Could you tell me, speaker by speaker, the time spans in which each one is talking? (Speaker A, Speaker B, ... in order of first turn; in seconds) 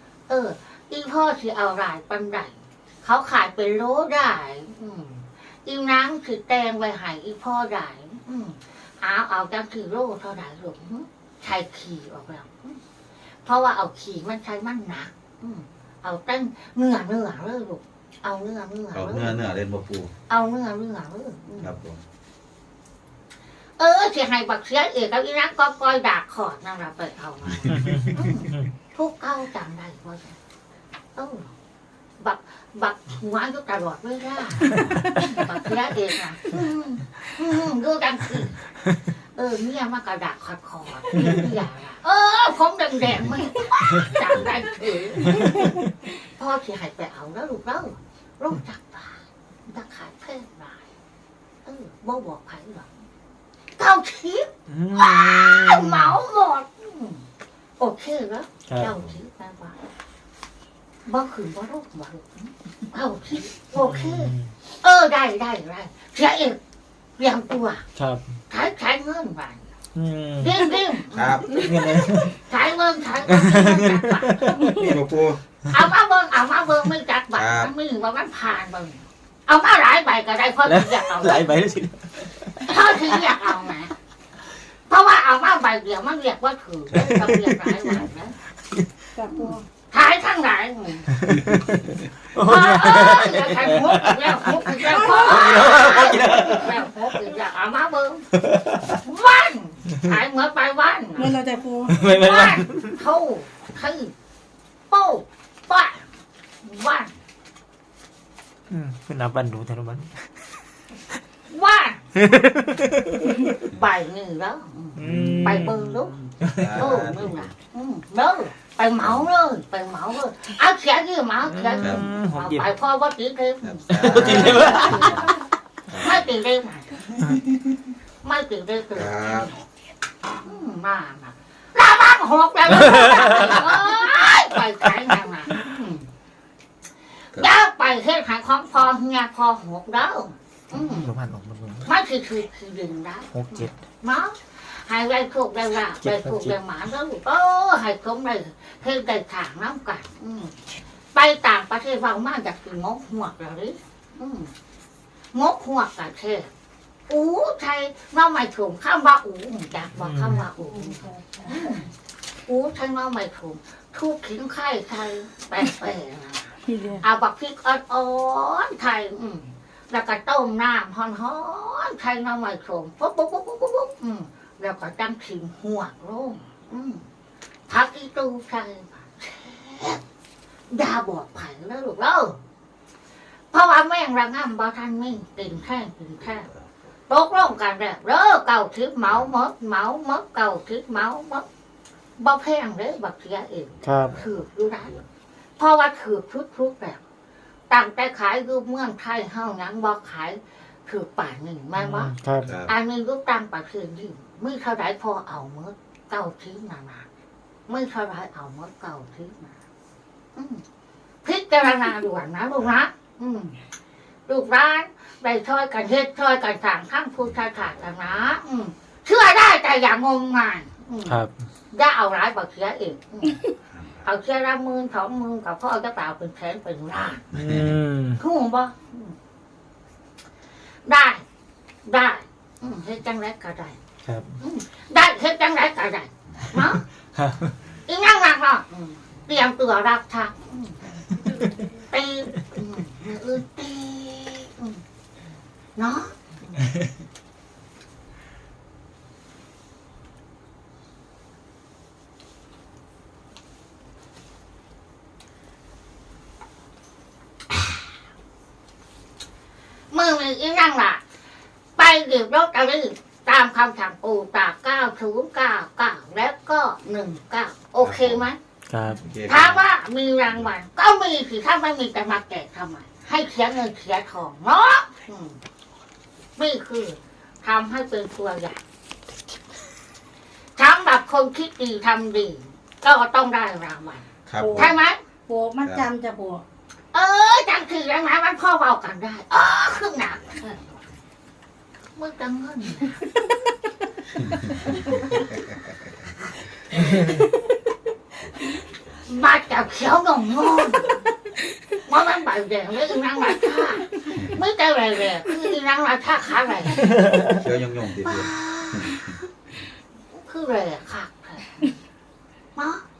Speaker A: 0.3-12.8, 13.4-19.4, 20.3-21.7, 23.8-30.4, 31.1-31.5, 32.2-38.6, 39.3-50.8, 51.6-52.9, 53.8-57.2, 57.8-59.8, 61.0-66.6, 67.2-67.8, 68.5-69.6, 70.4-74.6, 75.7-81.5, 82.6-83.9, 84.9-88.3, 89.3-91.1, 92.3-98.3, 98.9-101.3, 102.0-104.1, 104.9-106.1, 106.6-107.1, 111.5-112.0, 113.6-116.2, 116.7-125.4, 126.0-126.9, 128.2-129.4, 130.4-136.1, 137.3-141.1, 141.8-150.6, 151.1-154.5, 155.3-156.5, 157.1-161.9, 162.5-177.0, 177.7-180.0, 180.7-182.4, 183.5-186.5, 187.1-191.4, 192.2-194.9, 195.6-197.0, 197.7-202.1, 202.7-207.1, 207.7-209.6, 210.3-210.6, 211.2-213.6, 214.3-223.4, 224.0-227.2, 228.2-229.1, 230.8-231.2, 231.8-233.8, 234.4-236.8, 237.9-240.8, 241.4-244.8, 245.8-246.7, 259.9-261.0, 261.8-268.4, 269.3-275.4, 276.4-278.6, 280.6-285.0, 286.9-290.8, 291.9-293.0, 299.1-301.0, 301.8-306.9, 308.1-309.1, 310.1-311.7, 312.5-312.8
Speaker B: 18.9-20.1, 21.6-22.0, 27.5-28.2, 71.1-71.6, 74.7-75.4, 77.3-77.7, 115.0-115.7, 116.5-117.5, 119.0-119.3, 123.6-125.3, 125.9-126.2, 128.9-129.5, 193.9-195.1, 202.4-202.7, 223.7-224.1, 227.3-227.7, 267.8-268.2, 269.0-269.7, 284.3-284.7, 285.6-285.9, 294.2-295.5, 298.2-299.1, 307.2-309.2
Speaker C: 27.7-28.1, 45.3-45.8, 54.7-56.1, 58.7-58.9, 63.8-64.5, 68.0-68.2, 69.9-70.5, 71.5-72.4, 73.3-74.8, 80.6-82.7, 86.9-88.0, 88.7-89.0, 91.1-96.8, 98.4-98.9, 101.9-103.0, 108.7-110.1, 112.1-113.5, 115.0-115.9, 116.4-117.0, 121.4-122.7, 123.9-125.2, 140.7-141.9, 143.3-143.7, 146.0-146.5, 160.0-160.4, 193.8-194.1, 201.8-202.5, 221.1-221.3, 227.3-228.2, 234.1-234.3, 237.1-237.5, 268.7-269.0
Speaker D: 89.1-89.6, 101.2-102.0, 160.6-161.8, 166.7-167.0, 284.4-284.7, 285.3-286.4